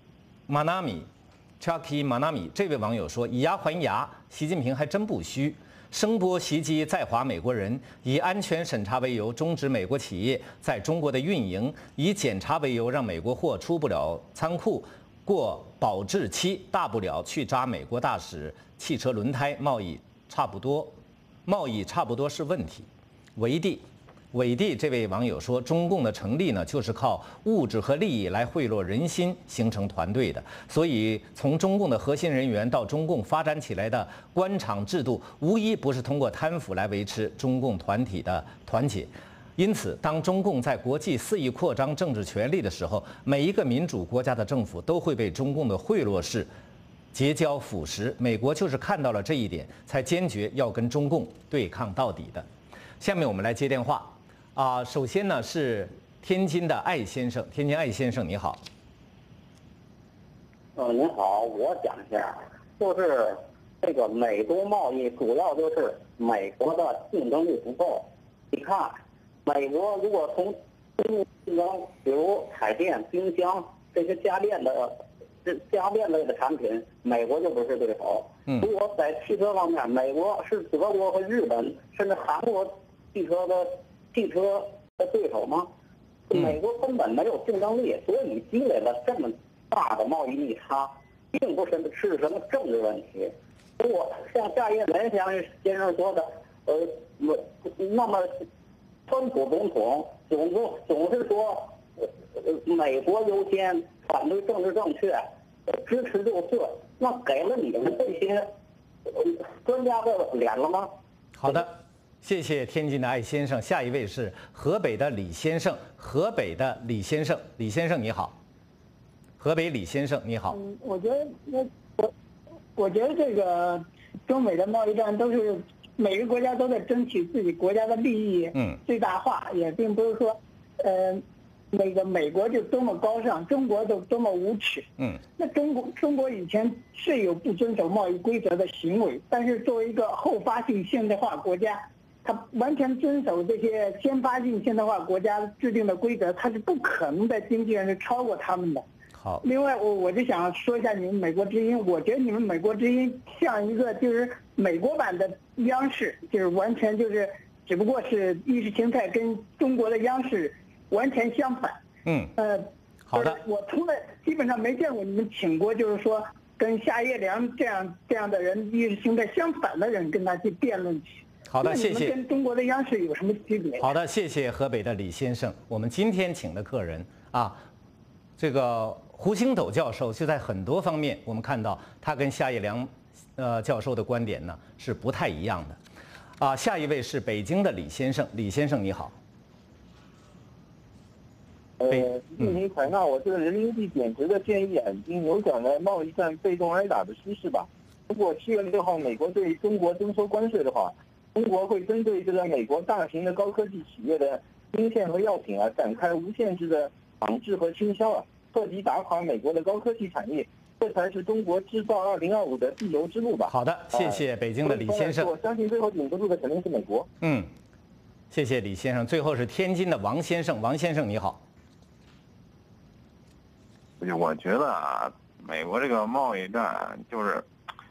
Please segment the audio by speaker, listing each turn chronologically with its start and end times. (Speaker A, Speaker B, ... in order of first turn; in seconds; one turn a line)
Speaker A: 0.5-1.1
Speaker A: 1.6-20.9
Speaker A: 21.4-46.5
Speaker A: 47.1-52.5
Speaker A: 53.0-58.6
Speaker B: 60.7-85.7
Speaker B: 86.3-98.3
Speaker B: 99.0-108.5
Speaker B: 109.1-110.9
Speaker A: 111.4-118.3
Speaker A: 119.4-120.6
Speaker C: 120.5-122.1
Speaker C: 122.7-148.8
Speaker A: 149.2-149.4
Speaker C: 149.4-161.8
Speaker A: 162.0-162.3
Speaker C: 162.4-173.9
Speaker A: 163.1-163.4
Speaker A: 171.5-172.2
Speaker A: 173.8-177.6
Speaker A: 178.4-185.8
Speaker A: 186.4-189.1
Speaker D: 191.8-217.1
Speaker A: 213.5-215.3
Speaker A: 217.2-217.5
Speaker A: 218.3-221.4
Speaker E: 224.0-227.5